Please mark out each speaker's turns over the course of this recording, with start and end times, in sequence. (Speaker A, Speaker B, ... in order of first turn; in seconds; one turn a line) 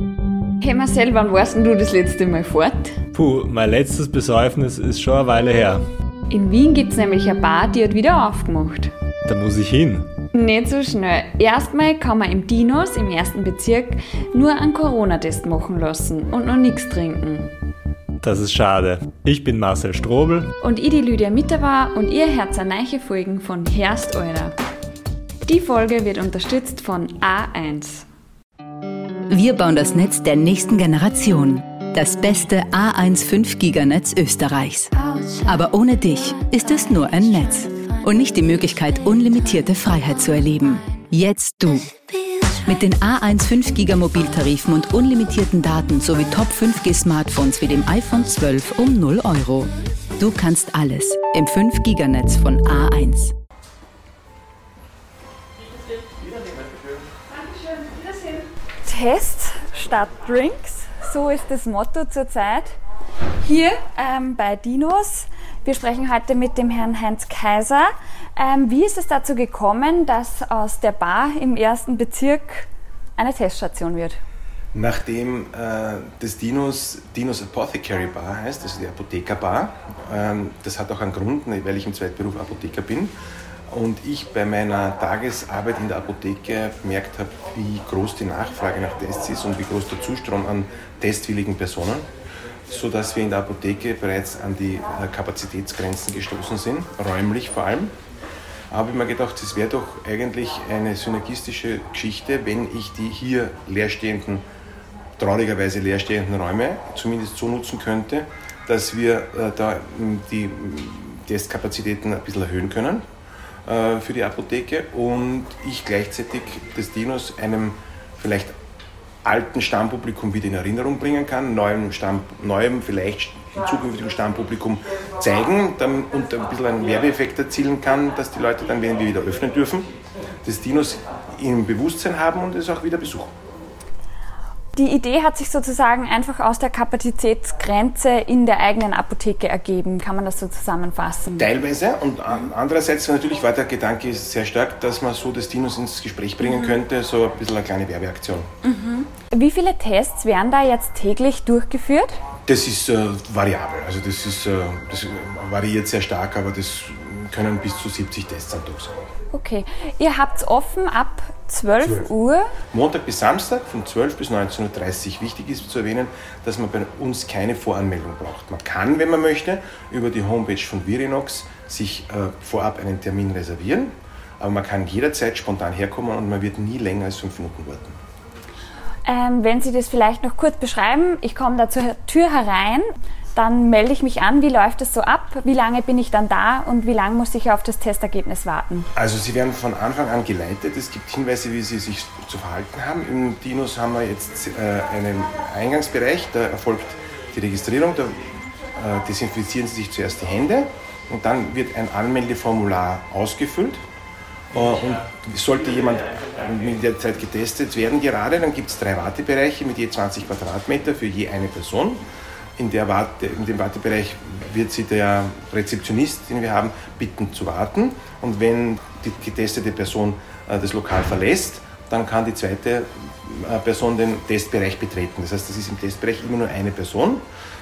Speaker A: 0.6-3.0
Speaker B: 3.1-5.8
Speaker A: 6.3-8.9
Speaker B: 9.3-10.1
Speaker A: 10.3-17.5
Speaker B: 18.2-20.5
Speaker A: 20.6-24.6
Speaker A: 25.4-28.0
Speaker C: 29.3-34.9
Speaker C: 35.4-41.9
Speaker C: 42.6-53.3
Speaker A: 58.8-62.7
Speaker A: 63.4-74.2
Speaker D: 74.7-83.1
Speaker D: 83.7-92.0
Speaker D: 92.7-97.9
Speaker D: 98.7-104.4
Speaker D: 105.2-113.0
Speaker D: 113.7-118.5
Speaker D: 119.2-129.9
Speaker D: 130.4-133.3
Speaker A: 134.8-141.5
Speaker D: 141.4-148.5
Speaker A: 146.4-146.8
Speaker A: 148.6-152.2
Speaker D: 152.4-159.1
Speaker A: 159.3-162.5
Speaker D: 161.8-162.1
Speaker D: 162.7-178.0
Speaker A: 179.1-182.8
Speaker A: 183.3-188.9
Speaker D: 188.9-198.2
Speaker D: 198.7-203.8
Speaker D: 204.5-212.0
Speaker D: 212.6-227.2